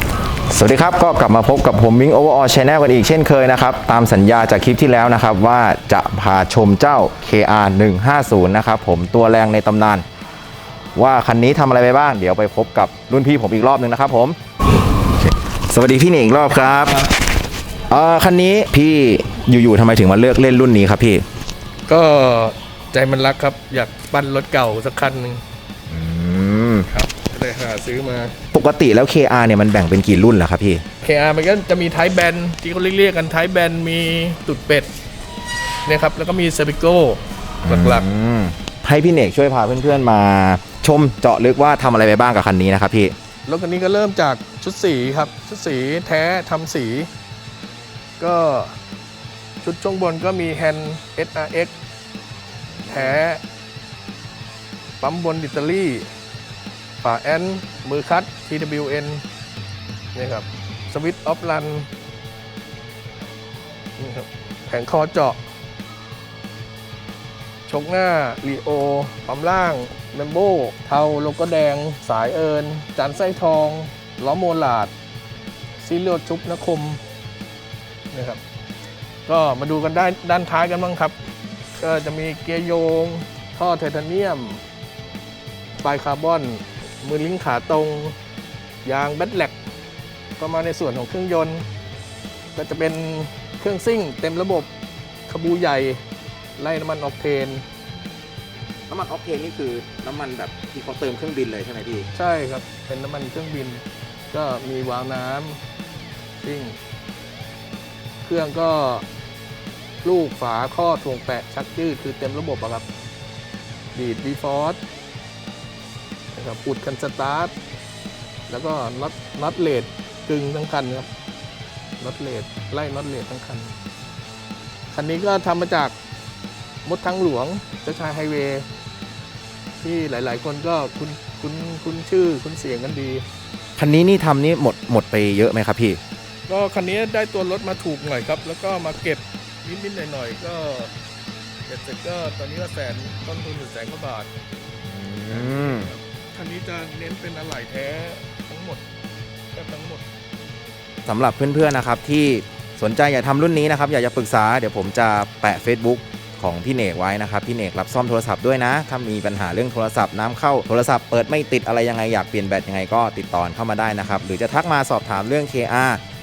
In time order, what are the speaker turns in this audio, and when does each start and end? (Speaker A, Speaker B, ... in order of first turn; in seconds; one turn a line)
Speaker A: 0.5-10.0
Speaker A: 10.9-17.1
Speaker A: 17.9-21.2
Speaker B: 21.9-25.4
Speaker A: 25.9-26.9
Speaker B: 26.9-28.3
Speaker A: 28.5-30.8
Speaker B: 31.0-34.9
Speaker B: 35.8-38.0
Speaker A: 37.6-43.1
Speaker B: 43.5-47.1
Speaker B: 48.2-48.8
Speaker B: 49.6-51.7
Speaker A: 52.8-53.2
Speaker B: 52.9-53.4
Speaker B: 55.0-56.1
Speaker B: 57.0-59.2
Speaker B: 60.1-61.9
Speaker B: 64.0-65.4
Speaker B: 67.7-74.9
Speaker B: 75.8-77.0
Speaker B: 78.1-78.4
Speaker B: 79.3-81.2
Speaker B: 81.8-84.6
Speaker B: 85.8-88.2
Speaker B: 88.8-89.5
Speaker B: 90.4-91.6
Speaker B: 92.5-94.7
Speaker B: 95.3-96.0
Speaker B: 96.6-97.6
Speaker A: 98.9-102.1
Speaker B: 102.1-105.6
Speaker B: 106.4-106.8
Speaker B: 108.2-109.0
Speaker B: 110.0-112.8
Speaker B: 113.9-114.8
Speaker B: 116.3-117.5
Speaker B: 118.5-121.1
Speaker B: 122.0-123.7
Speaker B: 124.9-125.9
Speaker B: 126.8-128.7
Speaker B: 129.8-133.2
Speaker A: 133.8-136.0
Speaker B: 136.5-140.9
Speaker B: 141.7-144.3
Speaker A: 144.8-145.9
Speaker B: 145.3-148.8
Speaker B: 149.5-150.0
Speaker A: 151.1-166.0